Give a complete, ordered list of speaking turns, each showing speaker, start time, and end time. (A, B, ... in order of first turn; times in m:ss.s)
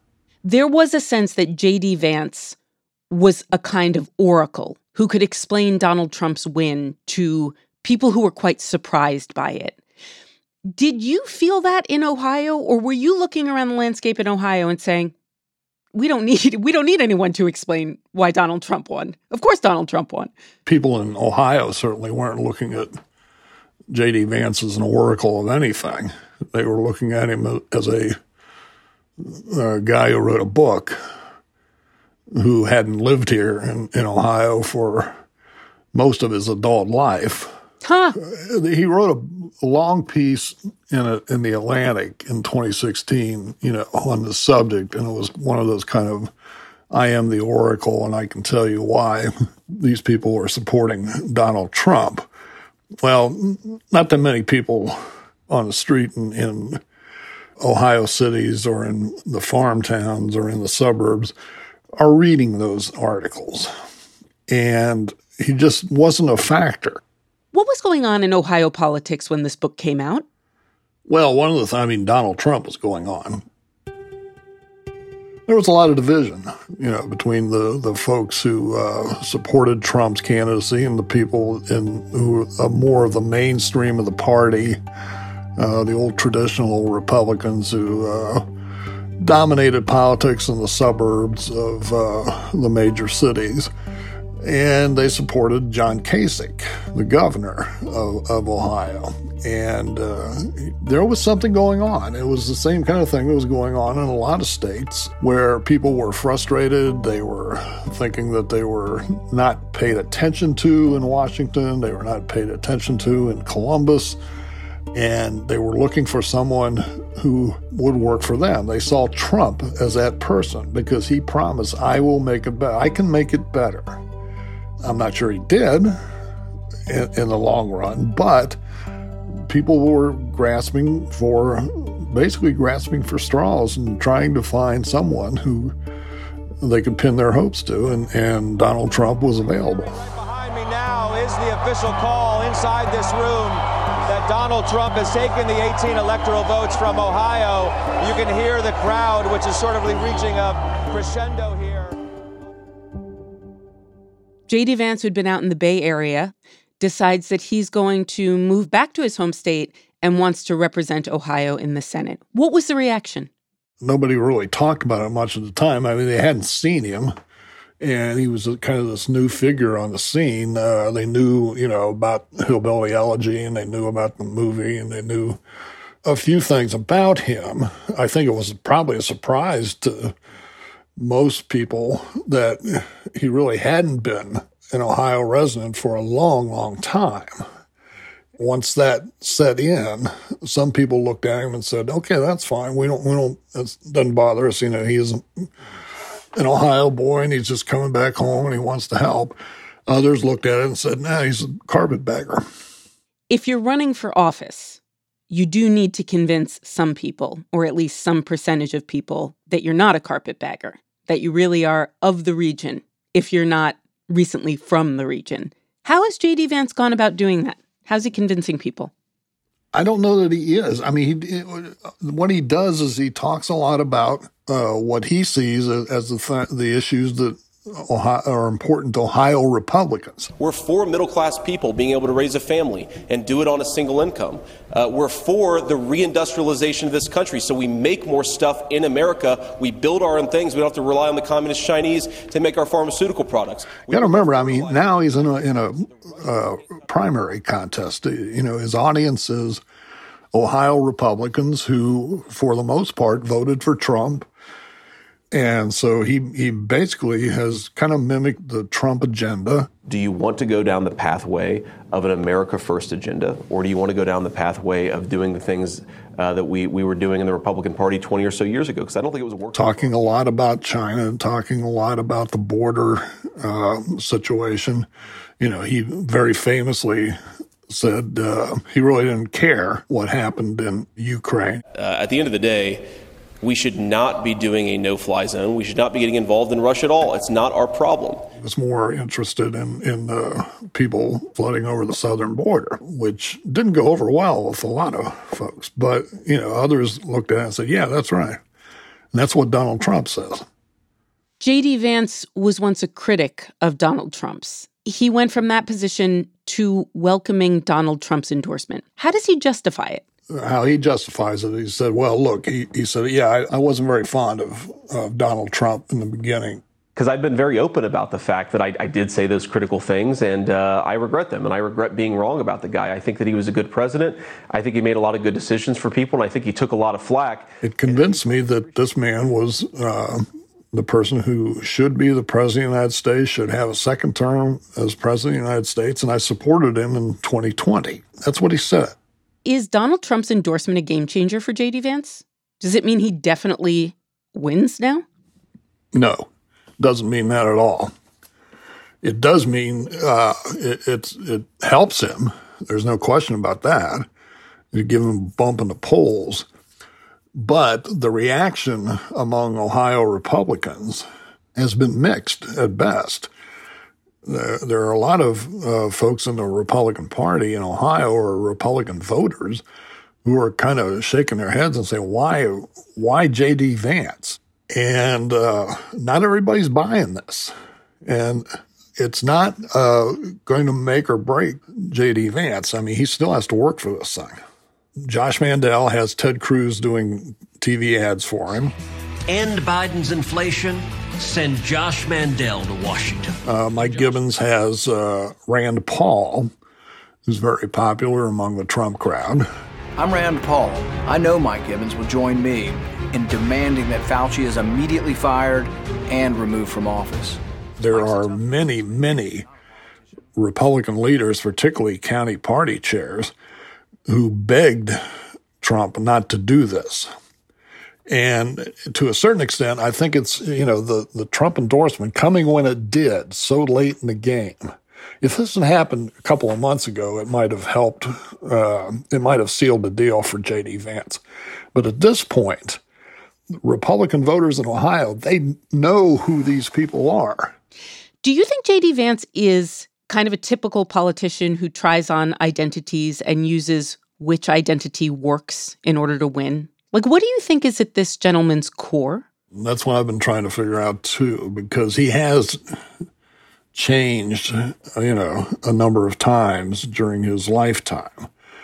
0:00.4-0:02.6 A
0:03.1-0:09.8 A
0:10.7-0:15.1 A
0:15.9-0:20.3 A
0:20.6-0:23.0 B
0:23.9-0:28.2 B
0:29.2-0:31.0 B
0:32.3-0:35.2 B
0:35.9-0:37.5 B
0:37.8-0:38.2 A
0:38.2-0:46.3 B
0:46.9-0:52.3 B
0:53.0-0:56.8 B
0:57.6-1:01.3 B
1:02.0-1:03.7 B
1:04.5-1:07.0 B
1:07.5-1:10.2 A
1:11.1-1:13.4 B
1:15.5-1:24.8 B
1:25.6-1:28.4 B
1:29.2-1:33.7 B
1:34.4-1:54.2 B
1:54.9-2:04.0 B
2:04.8-2:06.0 B
2:06.9-2:08.6 B
2:09.3-2:15.7 B
2:16.6-2:20.0 B
2:19.9-2:32.0 C
2:34.5-2:43.3 A
2:43.8-2:47.1 B
2:47.8-2:55.4 B
2:56.0-3:00.2 B
3:01.0-3:07.4 B
3:08.4-3:15.5 B
3:16.3-3:19.4 B
3:19.9-3:22.4 B
3:23.3-3:38.9 A
3:39.7-3:50.3 B
3:50.4-4:05.1 D
4:03.9-4:09.6 B
4:10.3-4:14.3 B
4:15.3-4:19.7 B
4:19.9-4:30.0 D
4:29.5-4:34.9 B
4:35.4-4:37.2 B
4:37.7-4:41.6 B
4:41.7-4:42.8 D
4:43.4-4:48.3 D
4:48.4-4:58.4 B
4:59.1-5:00.4 B
5:01.4-5:10.0 A
5:10.3-5:16.6 B
5:16.9-5:28.3 D
5:27.6-5:38.9 B
5:39.4-5:45.0 A
5:45.9-5:46.3 B
5:46.8-5:47.9 B
5:49.0-5:54.1 B
5:54.7-5:56.4 B
5:57.3-6:03.3 B
6:04.2-6:09.6 B
6:10.2-6:17.5 B
6:18.0-6:24.4 B
6:25.0-6:28.7 B
6:29.3-6:33.4 E
6:33.4-6:36.5 B
6:37.2-6:39.5 B
6:40.0-6:47.4 F
6:47.8-6:49.5 B
6:50.4-6:53.3 B
6:54.1-6:55.0 B
6:55.6-6:57.1 B
6:58.1-7:11.2 B
7:11.7-7:12.8 B
7:13.6-7:17.5 B
7:18.2-7:29.2 A
7:29.5-7:32.7 B
7:33.7-7:38.3 B